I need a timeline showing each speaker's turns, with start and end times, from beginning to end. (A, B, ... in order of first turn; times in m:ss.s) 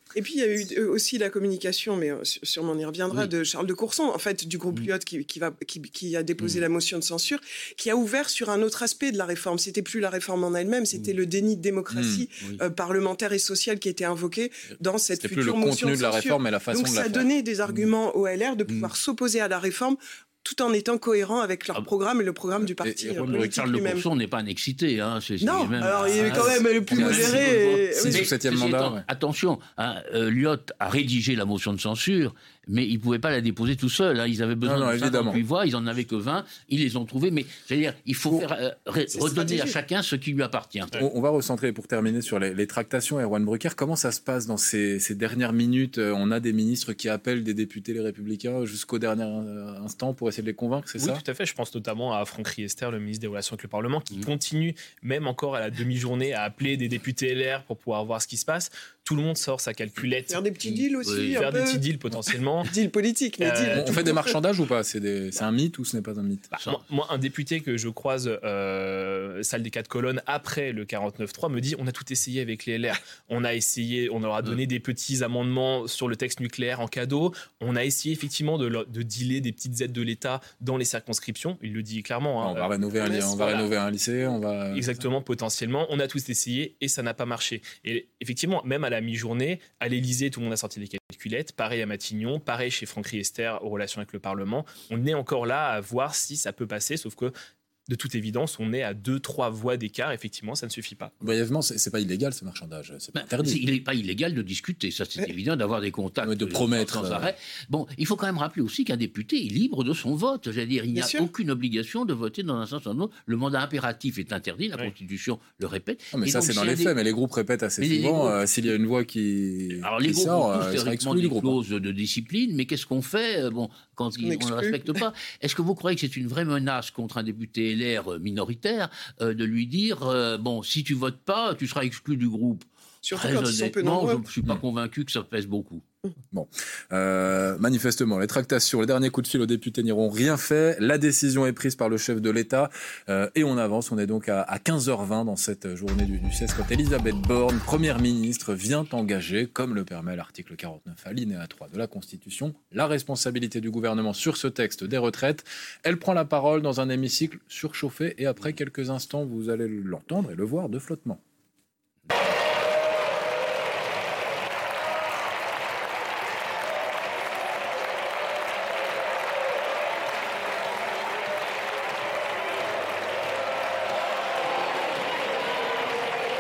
0:00.2-0:24.0 A
0:11.9-0:12.3 B
0:15.2-0:17.3 B
0:22.6-0:23.5 B
0:23.2-0:40.9 C
0:25.4-0:28.2 A
0:26.2-0:29.0 B
0:34.6-0:35.4 B
0:39.1-0:39.8 A
0:41.0-0:51.2 B
0:51.0-1:00.4 D
1:00.3-1:01.8 A
1:00.6-1:01.4 C
1:01.3-1:02.7 D
1:02.6-1:04.4 A
1:03.4-1:04.0 D
1:03.7-1:06.5 B
1:06.5-1:22.7 D
1:22.4-1:25.0 B
1:23.0-1:23.4 A
1:23.4-1:23.6 D
1:24.7-1:37.3 D
1:37.9-1:41.1 D
1:41.2-1:43.6 B
1:43.1-1:56.9 C
1:46.2-1:47.4 B
1:50.9-1:51.3 A
1:56.1-2:01.6 B
1:57.8-1:58.4 C
1:59.8-2:15.8 C
2:04.1-2:05.0 A
2:13.0-2:14.2 A
2:16.3-2:41.2 B